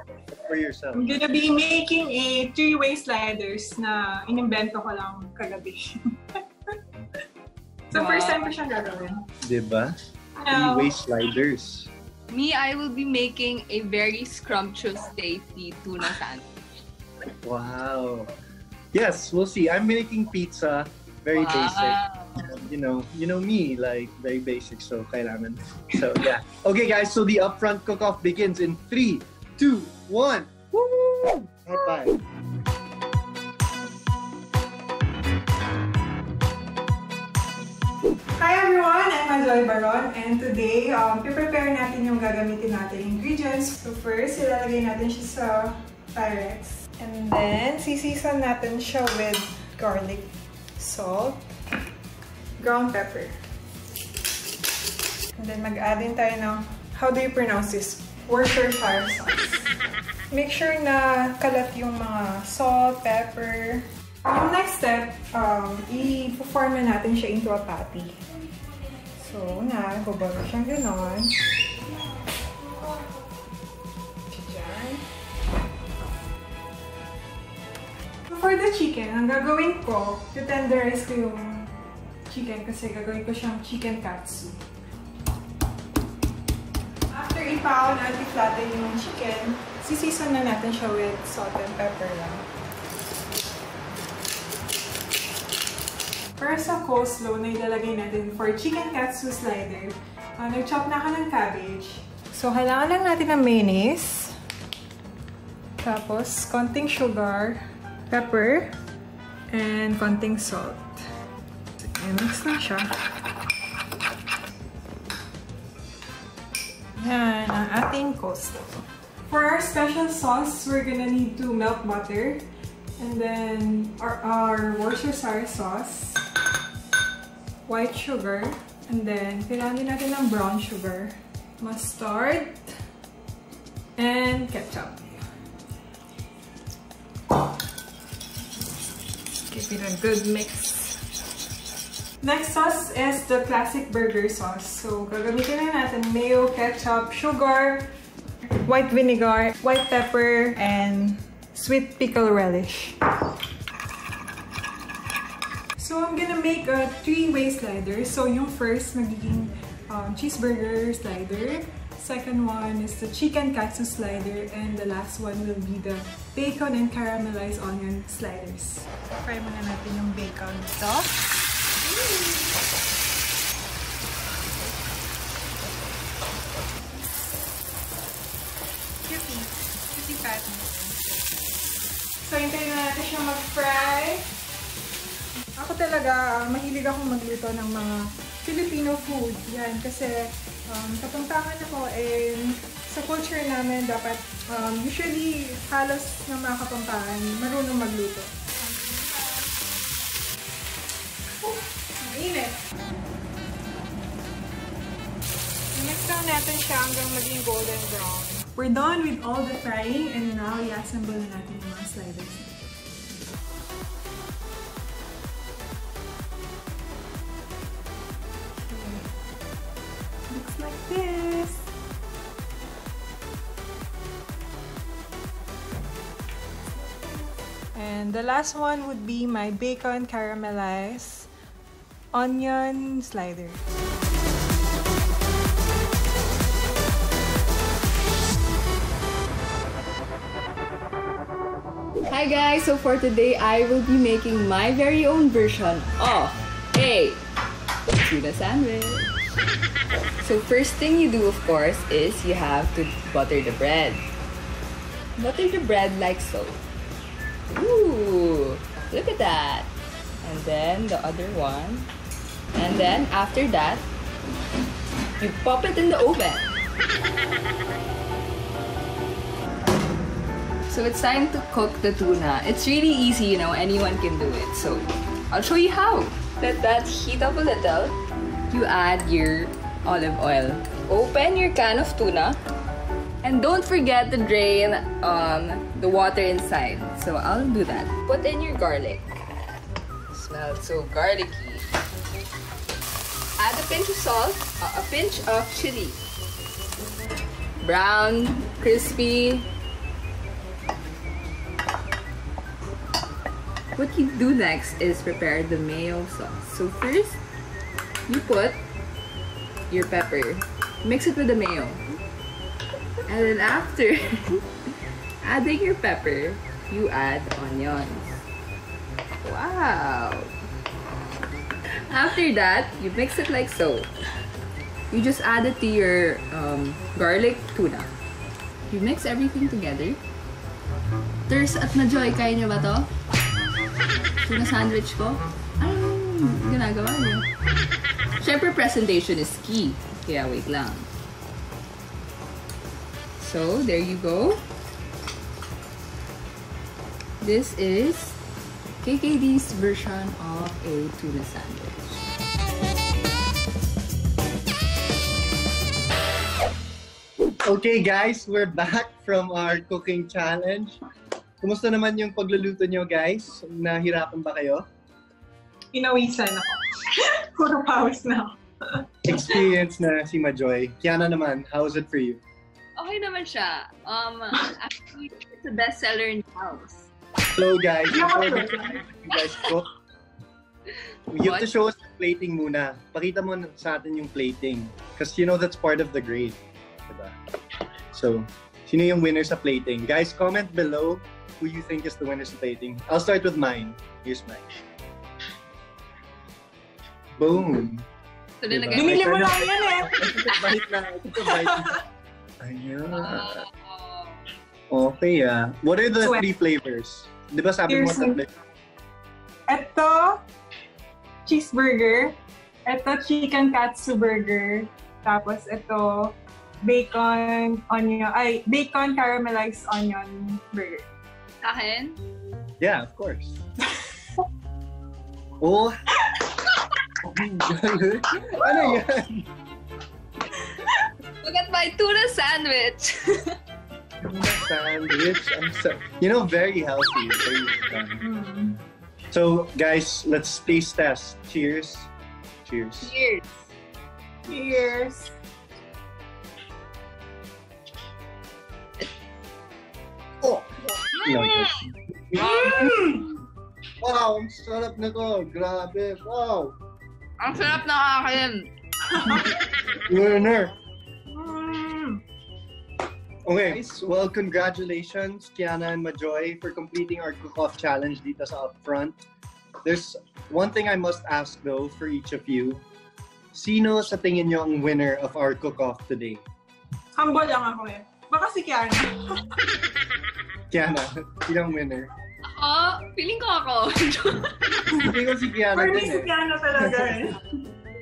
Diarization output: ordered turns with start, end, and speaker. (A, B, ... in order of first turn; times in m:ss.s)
0:00.3-0:01.2 A
0:00.9-0:06.0 B
0:07.9-0:09.2 B
0:07.9-0:08.5 C
0:09.5-0:09.9 A
0:10.4-0:10.9 B
0:10.5-0:11.9 A
0:12.3-0:16.4 C
0:17.4-0:18.3 A
0:18.9-0:32.2 A
0:21.4-0:22.5 C
0:38.4-0:51.5 B
0:52.6-0:53.4 B
0:55.4-0:59.7 B
1:00.3-1:08.2 B
1:09.2-1:11.4 B
1:12.7-1:13.1 B
1:14.3-1:15.1 B
1:18.3-1:21.8 B
1:22.3-1:24.6 B
1:27.1-1:32.5 B
1:36.4-1:44.4 B
1:45.8-1:48.8 B
1:49.5-1:51.1 B
1:51.8-1:52.9 B
1:57.0-2:02.5 B
2:03.0-2:06.2 B
2:07.7-2:12.7 B
2:14.0-2:15.2 B
2:19.5-2:21.0 B
2:22.2-2:27.9 B
2:28.6-2:33.0 B
2:35.8-2:51.2 B
2:51.9-2:52.5 B
2:59.0-3:01.5 B
3:02.2-3:04.3 B
3:05.6-3:19.6 B
3:21.4-3:22.7 B
3:25.7-3:32.7 B
3:38.6-3:39.1 B
3:40.3-3:41.7 B
3:47.8-3:51.3 B
3:52.1-3:53.6 B
4:02.1-4:07.2 C
4:07.9-4:09.1 C
4:10.2-4:14.0 C
4:15.2-4:16.6 C
4:17.5-4:19.7 C
4:20.2-4:21.9 C
4:22.6-4:23.9 C
4:25.2-4:26.5 C
4:30.7-4:38.0 C
4:38.5-4:42.4 C
4:43.2-4:49.1 C
4:50.1-4:51.7 C
4:53.4-4:56.0 C
4:57.6-4:59.5 C
5:03.8-5:07.2 C
5:08.1-5:08.6 C
5:09.7-5:11.8 C
5:13.1-5:14.4 C
5:15.2-5:18.2 C
5:19.2-5:20.3 C
5:21.9-5:23.9 C
5:24.9-5:27.9 C
5:28.7-5:30.0 C
5:31.3-5:32.9 C
5:34.2-5:37.3 C
5:38.2-5:40.9 C
5:43.2-5:44.4 C
5:47.2-5:48.2 C
5:48.8-5:52.0 C
5:57.4-6:00.8 A
6:01.4-6:04.6 A
6:05.7-6:08.4 B
6:09.1-6:12.2 A
6:12.8-6:16.9 C
6:17.3-6:19.7 A
6:17.9-6:18.8 B
6:21.1-6:27.2 A
6:21.2-6:21.5 C
6:27.9-6:34.4 A
6:37.2-6:37.9 A
6:38.4-6:39.1 C
6:38.5-6:41.8 A
6:38.7-6:40.6 B
6:41.2-6:41.8 B
6:42.4-6:43.4 A
6:42.9-6:44.3 C
6:44.7-6:48.3 A
6:47.7-6:48.2 B
6:49.5-6:50.2 B
6:51.3-7:00.8 B
7:01.4-7:02.0 C
7:02.6-7:03.4 A
7:05.4-7:05.7 A
7:07.0-7:09.3 A
7:11.2-7:13.4 C
7:14.0-7:18.0 A
7:18.0-7:18.6 B
7:19.1-7:21.9 A
7:22.4-7:22.9 A
7:22.8-7:23.5 C
7:24.3-7:25.1 B
7:30.2-7:33.0 A
7:30.9-7:31.6 C
7:32.2-7:33.0 C
7:32.5-7:33.0 B
7:33.8-7:36.6 A
7:37.2-7:38.5 C
7:38.9-7:39.3 B
7:39.8-7:40.5 A
7:41.1-7:42.0 B
7:43.3-7:49.0 A
7:49.6-7:52.6 A
7:53.3-7:56.2 A
7:57.0-7:59.4 B
8:00.5-8:01.9 A
8:02.2-8:04.7 C
8:04.7-8:06.1 A
8:05.5-8:07.2 B